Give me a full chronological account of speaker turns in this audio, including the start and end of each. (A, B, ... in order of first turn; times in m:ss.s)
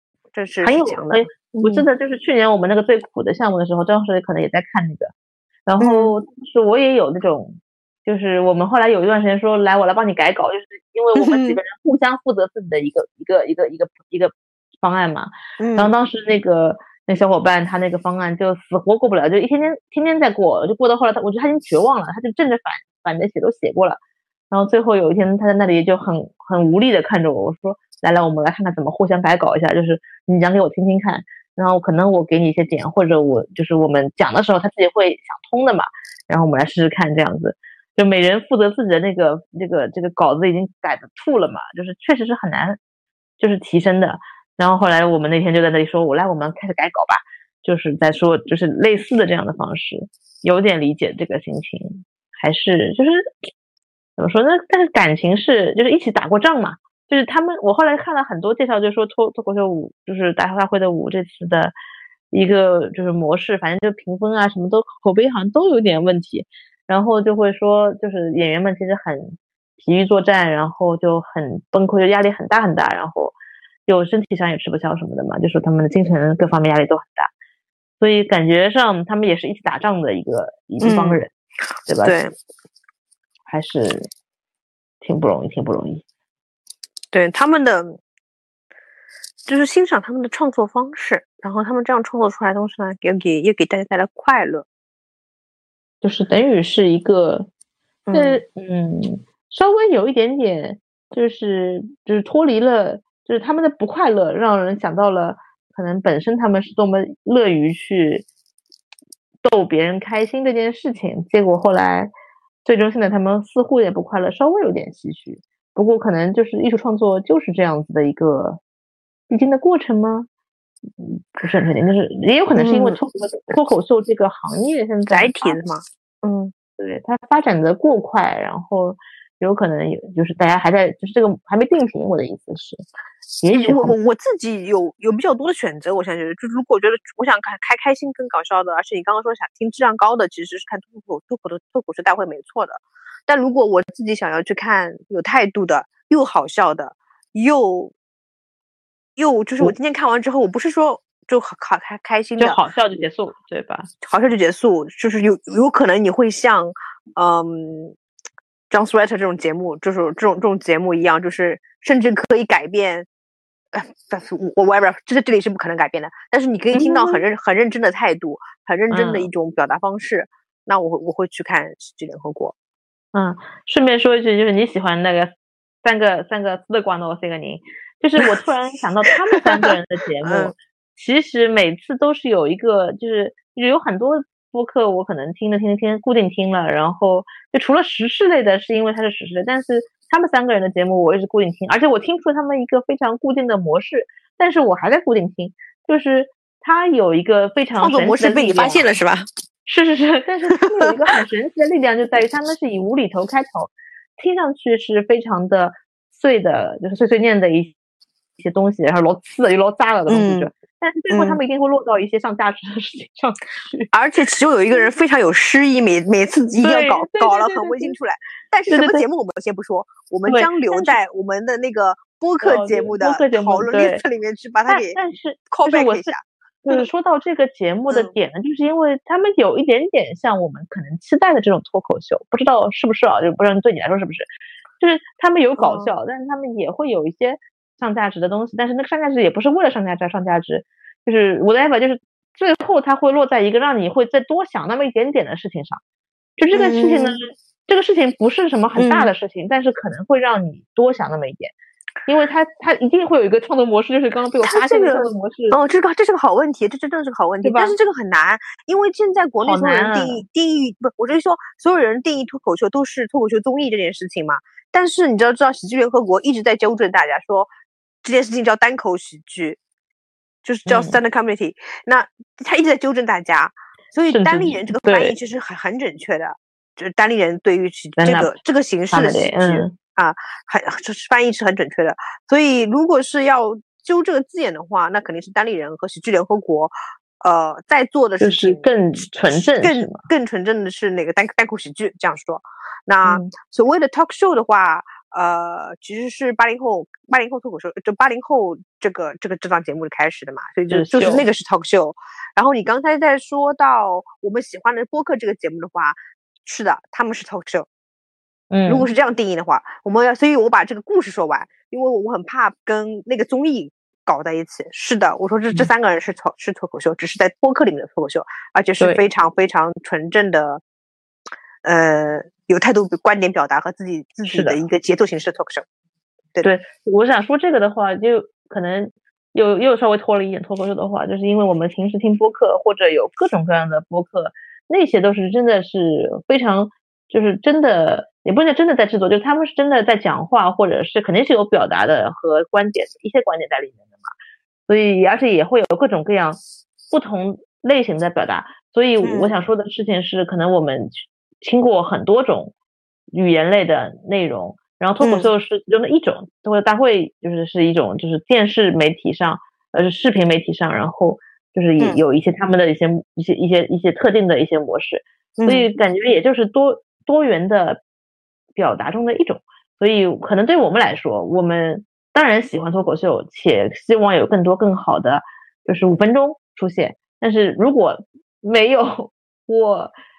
0:00.3-0:01.8 A
0:00.6-0:05.1 B
0:05.6-0:24.0 B
0:05.8-0:06.1 A
0:11.2-0:11.6 A
0:15.6-0:15.9 A
0:24.5-0:42.8 B
0:43.4-0:53.2 B
0:54.2-1:01.7 B
1:02.3-1:17.3 B
1:18.0-1:21.3 B
1:20.8-1:21.2 A
1:21.8-1:22.2 B
1:22.0-1:22.3 A
1:23.5-1:24.1 B
1:25.0-1:26.0 B
1:27.1-1:28.0 A
1:29.4-1:34.6 A
1:36.0-1:37.5 B
1:38.1-1:38.4 A
1:38.1-1:48.2 B
1:49.4-1:52.1 B
1:52.6-1:58.6 B
1:59.3-2:00.3 B
2:01.0-2:05.6 B
2:02.6-2:03.0 A
2:05.1-2:06.5 A
2:06.8-2:12.8 B
2:13.4-2:13.9 B
2:13.5-2:27.9 A
2:29.2-2:32.6 A
2:32.4-2:33.9 B
2:34.0-2:38.0 A
2:38.7-2:43.1 A
2:43.7-2:52.5 A
2:46.7-2:47.2 B
2:48.9-2:49.3 B
2:53.1-3:18.9 B
3:00.2-3:00.5 A
3:17.8-3:19.3 A
3:19.6-3:27.7 B
3:28.4-3:33.9 B
3:30.1-3:30.5 A
3:31.1-3:31.4 A
3:33.9-3:45.0 A
3:36.6-3:38.0 B
3:38.7-3:39.0 B
3:40.2-3:40.9 B
3:42.4-3:44.0 B
3:44.7-3:54.3 B
3:45.5-3:46.8 A
3:54.8-4:05.8 B
3:55.6-3:55.9 A
4:06.4-4:11.5 B
4:06.5-4:07.2 A
4:08.8-4:09.1 A
4:12.0-4:15.6 B
4:14.4-4:27.5 A
4:17.4-4:17.8 B
4:19.4-4:20.2 B
4:28.0-4:29.6 A
4:30.4-4:48.7 A
4:30.6-4:31.0 B
4:34.1-4:35.2 B
4:38.0-4:38.4 B
4:38.9-4:39.7 B
4:48.2-4:50.0 B
4:49.3-5:07.7 A
4:53.0-4:53.3 B
5:00.7-5:01.2 B
5:08.5-5:08.9 B
5:08.6-5:20.6 A
5:21.6-5:25.6 A
5:24.3-5:24.6 B
5:26.4-5:44.1 B
5:44.7-5:52.5 B
5:49.0-5:49.3 A
5:53.1-6:07.8 B
5:55.0-5:55.3 A
6:05.4-6:05.7 A
6:08.5-6:19.9 B